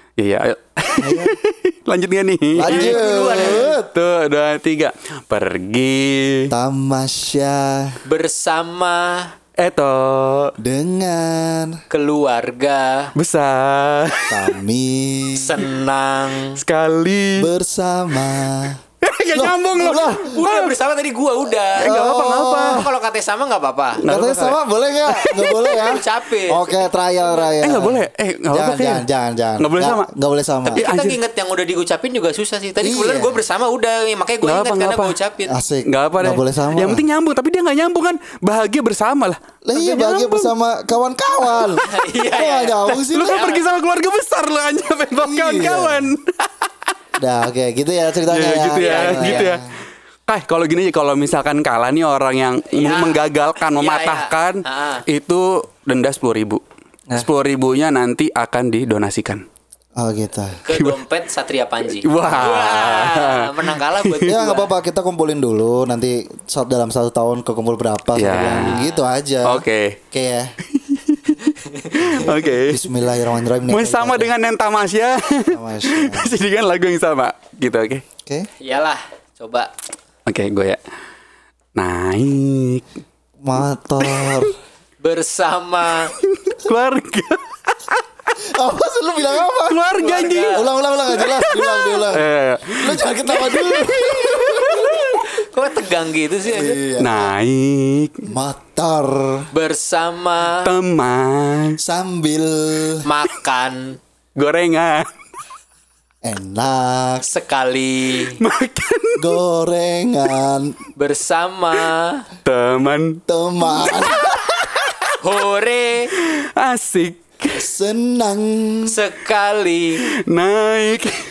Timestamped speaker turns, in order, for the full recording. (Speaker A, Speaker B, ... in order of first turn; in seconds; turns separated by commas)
Speaker A: 0.2-6.5, Speaker B: 1.0-1.4, Speaker B: 2.5-3.9, Speaker C: 2.6-3.7, Speaker B: 6.5-8.0, Speaker C: 8.1-9.3, Speaker A: 9.6-10.5, Speaker B: 10.6-11.8, Speaker C: 11.9-13.1, Speaker A: 13.2-14.6, Speaker B: 14.3-15.6, Speaker C: 15.3-16.6, Speaker A: 16.5-17.5, Speaker B: 17.4-18.8, Speaker A: 19.0-20.7, Speaker B: 19.3-20.3, Speaker C: 20.2-21.9, Speaker A: 21.8-22.9, Speaker B: 21.8-22.8, Speaker C: 22.6-24.0, Speaker A: 24.0-25.9, Speaker B: 24.1-30.9, Speaker C: 25.8-27.4, Speaker A: 27.6-29.1, Speaker A: 29.6-30.1, Speaker C: 30.7-35.5, Speaker A: 30.8-31.2, Speaker B: 32.8-33.4, Speaker A: 34.4-35.1, Speaker B: 35.5-37.1, Speaker A: 35.9-40.5, Speaker B: 39.6-43.4, Speaker A: 41.4-41.7, Speaker C: 41.8-43.6, Speaker A: 43.1-46.7, Speaker B: 45.2-46.1, Speaker B: 47.2-49.6, Speaker A: 48.3-49.6, Speaker C: 48.8-49.6, Speaker A: 50.3-56.6, Speaker C: 52.7-55.0, Speaker A: 57.1-59.4, Speaker B: 60.0-60.6, Speaker C: 60.6-64.7, Speaker A: 62.0-64.3, Speaker B: 64.2-70.5, Speaker A: 68.1-68.8, Speaker C: 68.7-69.0, Speaker A: 69.5-70.0, Speaker A: 70.7-71.6, Speaker C: 71.6-72.3, Speaker B: 72.0-74.3, Speaker A: 72.1-72.8, Speaker A: 73.7-78.0, Speaker B: 75.5-76.4, Speaker C: 78.6-79.7, Speaker A: 80.2-80.8, Speaker A: 81.8-82.8, Speaker B: 83.4-84.6, Speaker A: 84.0-84.5, Speaker C: 85.0-86.1, Speaker A: 86.2-88.0, Speaker B: 88.4-89.8, Speaker A: 89.7-95.2, Speaker C: 90.0-90.7, Speaker B: 90.5-95.0, Speaker C: 94.9-96.8, Speaker B: 96.4-97.3, Speaker A: 97.0-98.3, Speaker B: 98.2-99.5, Speaker C: 99.5-100.7, Speaker A: 100.6-101.8, Speaker B: 101.8-103.0, Speaker C: 103.0-104.0, Speaker A: 104.4-105.1, Speaker B: 106.2-107.2, Speaker C: 107.2-108.4, Speaker A: 108.4-109.4, Speaker B: 109.2-110.8, Speaker C: 111.0-112.2, Speaker A: 112.4-115.1, Speaker B: 113.3-114.5, Speaker C: 115.2-116.1, Speaker A: 116.2-117.6, Speaker B: 117.5-118.9, Speaker C: 118.9-120.2, Speaker A: 120.3-121.2